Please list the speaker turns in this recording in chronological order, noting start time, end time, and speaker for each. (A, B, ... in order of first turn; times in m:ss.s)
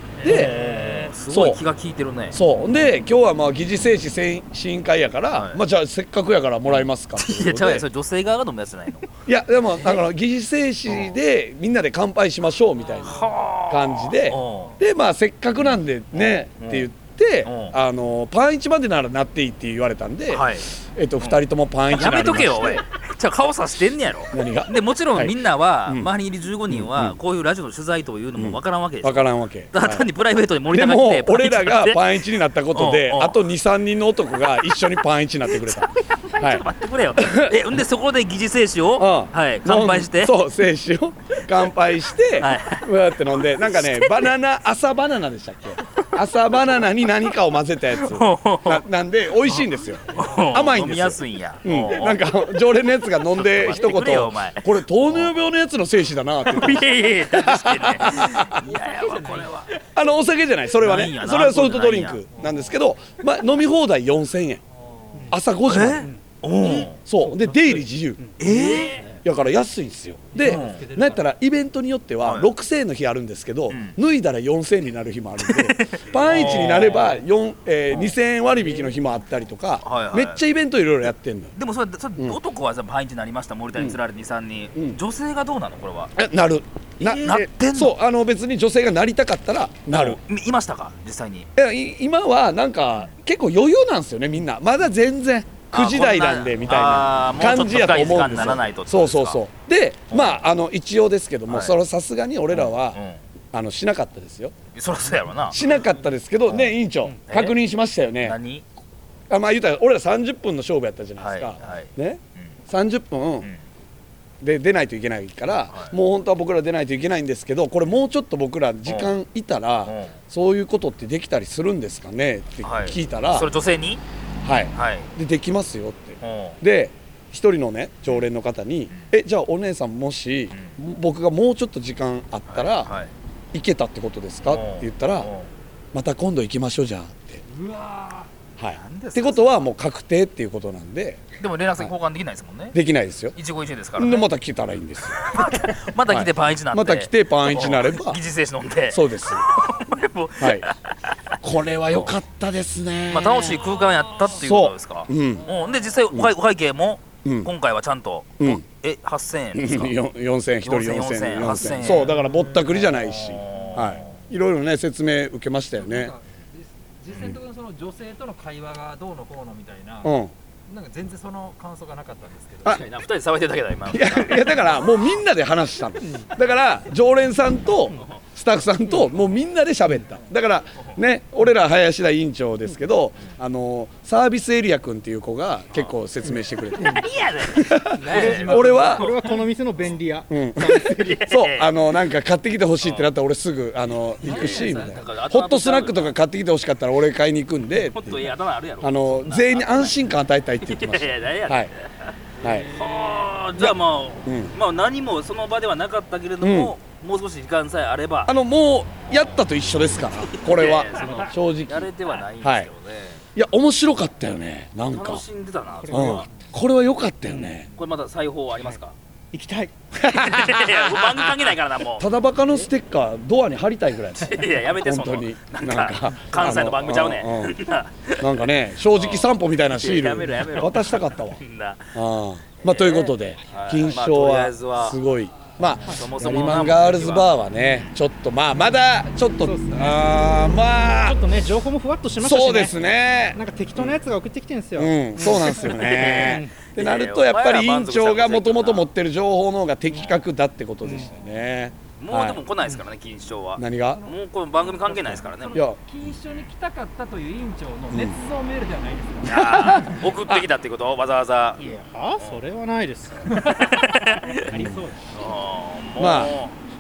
0:00.2-0:02.4 A
0:00.2-0:00.6 B
0:01.3-0:01.6 B
0:02.3-0:07.9 B
0:05.3-0:05.6 A
0:06.7-0:09.1 A
0:09.3-0:22.8 B
0:10.9-0:11.2 A
0:13.0-0:14.8 A
0:15.6-0:16.9 A
0:17.4-0:17.8 A
0:20.3-0:33.4 A
0:24.3-0:26.1 B
0:26.7-0:27.2 B
0:28.4-0:30.1 B
0:30.7-0:37.6 B
0:35.5-0:40.4 A
0:39.0-0:58.6 B
0:42.4-0:44.3 A
0:47.9-0:48.8 A
0:49.4-0:52.3 A
0:53.3-0:55.3 A
0:56.5-0:59.7 A
0:59.0-0:59.5 C
0:59.9-1:04.6 B
1:00.8-1:02.2 A
1:02.4-1:02.8 C
1:04.7-1:05.3 C
1:05.1-1:05.4 D
1:05.3-1:06.1 B
1:05.7-1:07.0 A
1:06.0-1:08.4 D
1:06.7-1:21.5 B
1:08.4-1:09.0 A
1:08.8-1:09.2 C
1:10.4-1:11.3 C
1:10.4-1:10.8 A
1:12.2-1:12.5 A
1:13.7-1:14.0 A
1:15.4-1:17.2 A
1:19.8-1:20.4 A
1:21.6-1:26.2 A
1:26.2-1:30.2 B
1:27.0-1:28.0 A
1:29.9-1:31.5 A
1:31.6-1:43.0 B
1:35.7-1:39.4 A
1:40.1-1:40.4 A
1:41.5-1:41.8 A
1:42.5-1:43.2 A
1:43.5-1:44.6 B
1:44.7-1:45.7 A
1:45.5-1:48.4 B
1:46.5-1:47.6 A
1:48.2-1:48.7 A
1:49.3-1:53.5 B
1:51.2-1:52.6 A
1:54.4-2:03.5 B
1:55.7-1:56.0 A
1:58.9-1:59.1 A
1:59.8-2:00.2 A
2:02.6-2:04.0 A
2:04.4-2:12.9 B
2:04.7-2:05.1 A
2:06.2-2:06.6 A
2:10.5-2:10.8 A
2:12.5-2:13.1 A
2:13.5-2:15.3 B
2:14.5-2:15.5 A
2:15.9-2:17.4 B
2:17.6-2:19.6 A
2:18.6-2:21.2 B
2:21.4-2:22.8 A
2:22.7-2:23.4 B
2:23.4-2:24.3 A
2:24.0-2:28.2 B
2:25.2-2:31.4 A
2:28.9-2:29.4 B
2:30.4-2:30.7 B
2:31.4-2:33.8 B
2:33.1-2:40.0 A
2:34.3-2:35.5 B
2:37.2-2:37.5 B
2:38.4-2:38.6 B
2:39.5-2:46.1 B
2:40.6-2:42.1 A
2:42.3-2:44.0 C
2:42.9-2:44.2 A
2:45.8-2:50.1 C
2:47.1-2:47.4 A
2:50.0-2:50.3 B
2:50.7-2:52.9 C
2:52.7-2:54.8 A
2:53.9-3:09.1 B
2:56.0-2:56.3 D
3:06.8-3:10.0 A
3:08.0-3:11.2 D
3:08.1-3:09.1 C
3:10.3-3:21.7 B
3:11.0-3:11.7 A
3:12.8-3:13.1 A
3:14.2-3:16.1 A
3:14.3-3:15.0 C
3:17.8-3:20.0 A
3:20.6-3:28.4 A
3:22.4-3:23.2 C
3:22.4-3:22.7 B
3:23.6-3:24.5 B
3:26.4-3:26.8 B
3:28.3-3:32.7 B
3:29.1-3:29.4 A
3:30.2-3:33.2 A
3:30.9-3:31.3 D
3:33.4-3:35.3 B
3:34.9-3:36.3 A
3:35.8-3:36.6 D
3:35.9-3:37.7 B
3:37.3-3:37.6 D
3:37.8-3:39.0 A
3:39.3-3:39.7 D
3:40.0-3:47.6 B
3:40.1-3:42.1 A
3:44.2-3:52.0 A
3:48.2-3:51.4 B
3:51.9-4:01.2 B
3:52.6-3:55.0 A
3:55.8-3:57.9 A
3:59.4-4:02.8 D
4:02.2-4:04.0 B
4:03.3-4:06.6 D
4:04.8-4:12.4 B
4:05.5-4:08.9 A
4:10.8-4:11.2 D
4:12.0-4:15.7 A
4:13.6-4:14.0 B
4:15.5-4:15.8 B
4:15.9-4:19.2 C
4:17.9-4:18.2 B
4:17.9-4:19.2 D
4:19.2-4:21.6 A
4:19.2-4:20.5 B
4:21.6-4:23.7 D
4:23.3-4:24.5 A
4:24.3-4:25.1 D
4:24.5-4:24.8 B
4:25.1-4:26.6 A
4:26.0-4:26.4 B